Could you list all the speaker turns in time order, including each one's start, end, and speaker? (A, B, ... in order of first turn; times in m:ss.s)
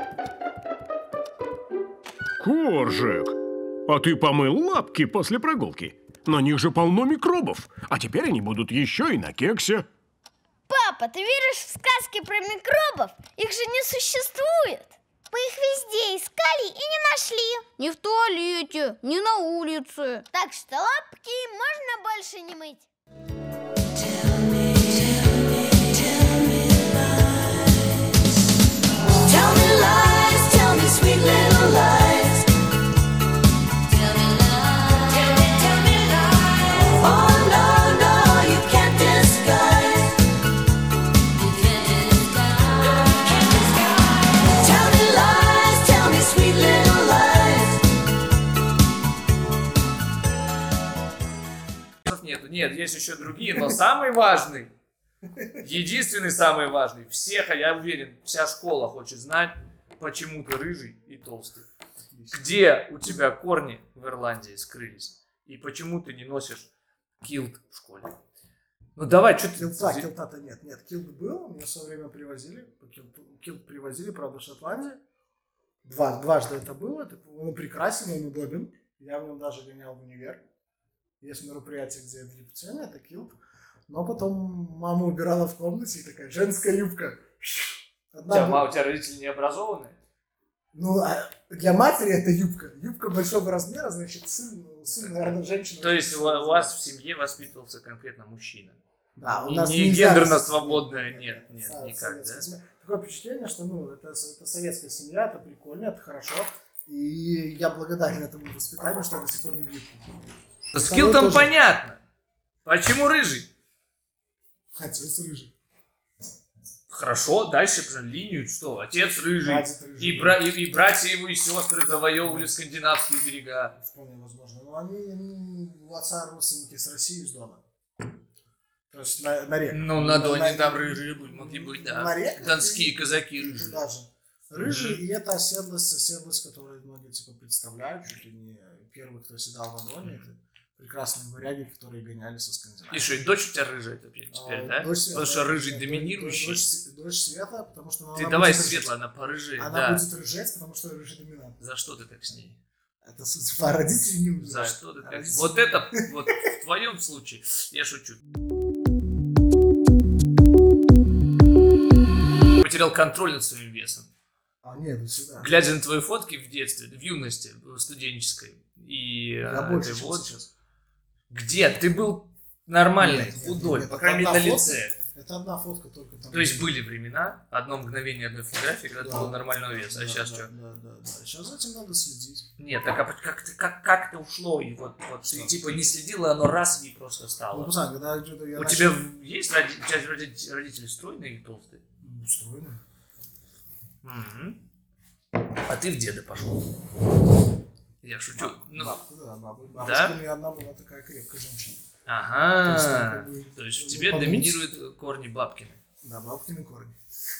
0:02.4-0:03.3 A
0:03.9-0:09.8 A
0:10.7-0:17.6 B
0:17.8-0:20.3 C
0:20.3-0:22.9 B
0:24.0-0:28.2 D
0:29.2-0:32.5 D
0:33.8-0:40.2 D
0:41.3-0:47.8 D
0:52.0-0:54.7 E
0:55.3-0:55.6 F
0:55.6-1:01.7 E
1:02.1-1:03.3 F
1:02.3-1:06.7 E
1:07.2-1:08.2 E
1:09.0-1:10.1 E
1:09.5-1:15.0 F
1:15.8-1:20.4 F
1:21.2-1:23.4 F
1:23.9-1:28.6 F
1:28.3-1:30.0 E
1:30.7-1:36.8 F
1:35.0-1:42.5 E
1:39.2-1:50.2 F
1:50.7-1:52.0 E
1:50.8-1:51.5 F
1:52.6-1:53.5 E
1:54.8-1:55.5 F
1:56.9-2:03.8 E
1:58.9-2:00.5 F
2:02.2-2:02.5 F
2:03.8-2:07.6 F
2:08.9-2:23.2 F
2:09.7-2:13.8 E
2:14.6-2:15.0 E
2:22.9-2:26.7 E
2:24.3-2:28.9 F
2:28.1-2:30.0 E
2:29.6-2:31.6 F
2:31.6-2:32.6 E
2:33.0-2:36.1 F
2:34.4-2:38.2 E
2:42.6-2:44.1 E
2:44.6-2:45.6 F
2:45.4-2:50.3 E
2:49.4-2:50.5 F
2:51.3-2:55.0 E
2:53.0-2:56.7 F
2:56.3-3:00.5 E
2:59.0-3:02.5 F
3:02.6-3:07.7 E
3:05.2-3:05.9 F
3:07.5-3:09.0 F
3:08.5-3:11.8 E
3:12.0-3:12.8 F
3:14.0-3:14.6 E
3:15.7-3:16.7 E
3:18.0-3:19.0 E
3:18.3-3:21.8 F
3:19.8-3:20.2 E
3:22.1-3:25.8 E
3:22.6-3:24.6 F
3:26.0-3:27.0 F